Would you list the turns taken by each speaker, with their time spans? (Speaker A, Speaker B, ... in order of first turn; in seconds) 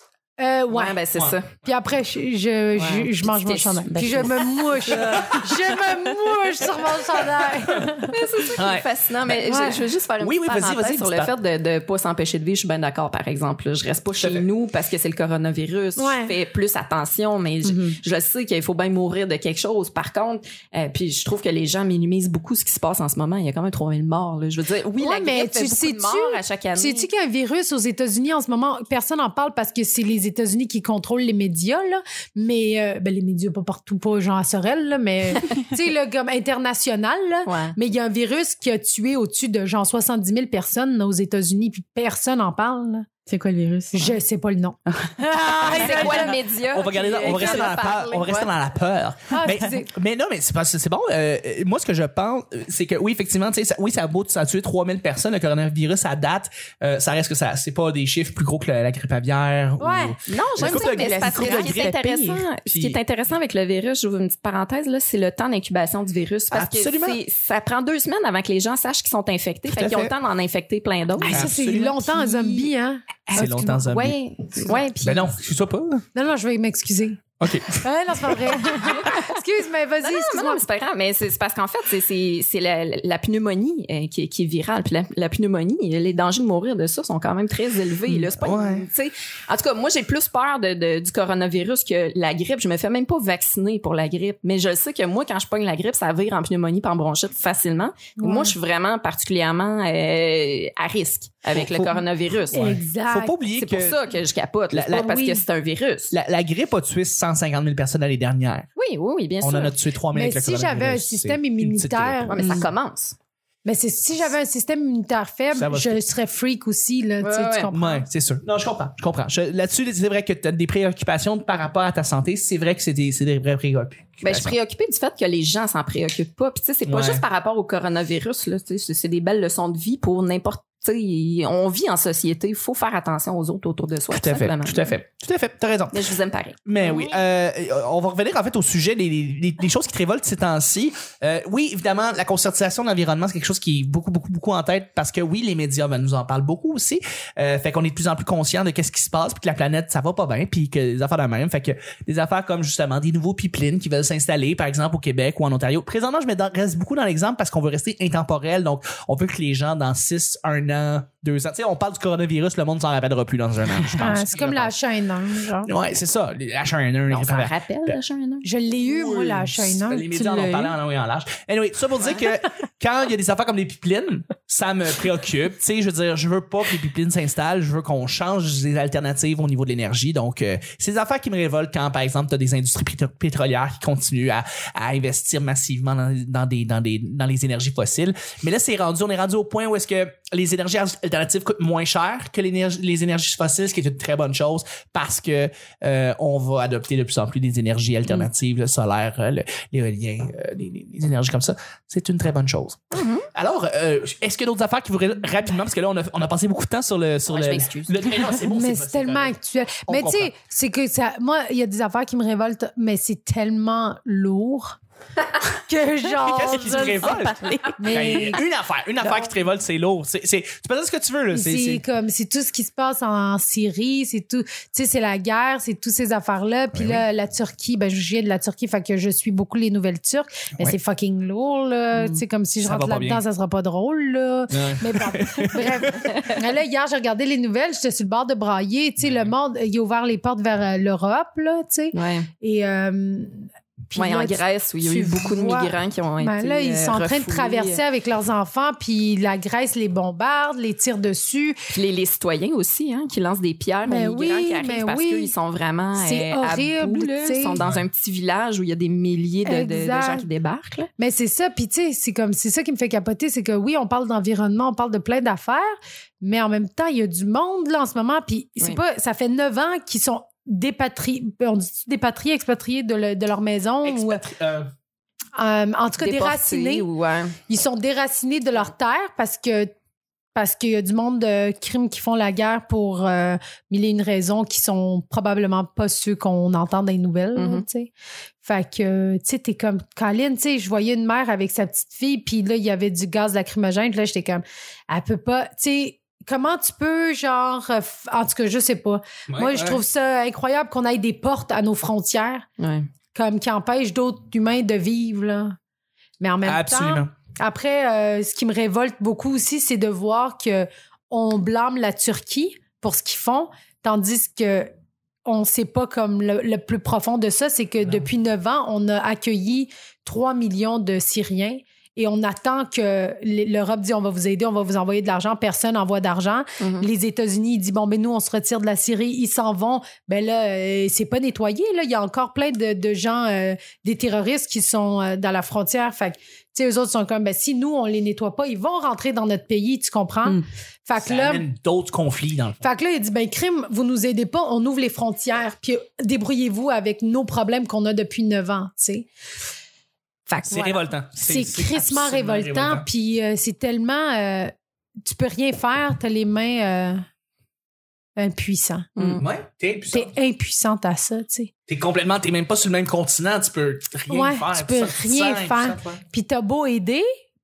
Speaker A: 0.4-1.0, 1.6-8.2, 9.5-9.8, 16.0-16.3, 25.0-43.1, 43.9-46.4, 47.2-47.6, 49.3-49.9, 59.8-60.2, 71.2-73.9, 76.2-77.2, 77.8-80.6, 98.2-98.5, 102.5-103.3, 105.0-105.4, 110.1-112.4, 113.7-118.1, 164.0-165.7, 168.4-170.2, 208.5-214.8, 215.7-217.3, 217.8-218.4, 221.3-251.6, 253.9-255.3, 256.0-257.6, 259.4-260.3, 261.0-274.2, 275.4-276.9, 277.5-279.7, 280.4-287.9, 288.4-302.5, 303.1-305.6, 306.2-314.7, 315.3-341.4, 342.6-349.1, 350.3-354.5, 355.1-357.0, 358.2-359.2, 359.9-361.5, 364.1-367.1
Speaker B: 0.7-1.5, 2.8-4.1, 8.1-27.1, 37.5-37.8, 45.7-48.5, 60.3-71.5, 72.3-72.7, 73.3-75.3, 80.0-102.8, 103.5-106.1, 108.8-109.8, 112.3-113.2, 117.2-117.7, 124.2-135.0, 135.9-137.2, 167.1-168.4, 202.9-203.3, 207.3-208.3, 241.9-242.3, 244.0-247.8, 251.7-260.9, 276.0-277.4, 287.4-287.6, 302.6-302.9, 326.6-326.9, 359.0-359.2
Speaker C: 1.1-1.4, 5.1-5.5, 8.6-9.4, 10.2-11.3, 14.2-14.5, 45.6-61.9, 62.7-63.0, 66.5-67.2, 69.7-70.1, 71.2-72.3, 73.3-74.2, 75.0-76.0, 77.4-77.8, 88.1-88.9, 101.5-102.0, 102.5-104.0, 104.7-105.2, 106.1-108.7, 109.4-112.5, 115.5-116.0, 117.7-124.6, 126.9-127.2, 134.1-136.0, 136.7-164.7, 165.7-168.0, 168.8-209.3, 209.9-210.3, 216.2-221.8, 226.7-227.0, 232.6-233.2, 234.5-236.2, 239.0-239.3, 257.6-257.9, 273.8-274.7, 299.3-299.8, 306.4-307.1, 341.0-342.6, 350.5-352.9, 359.2-360.1, 361.7-366.0
Speaker D: 3.9-5.4, 17.6-18.0, 43.3-44.2, 44.9-45.1, 60.3-62.5, 112.4-112.7, 170.1-170.8, 216.7-218.3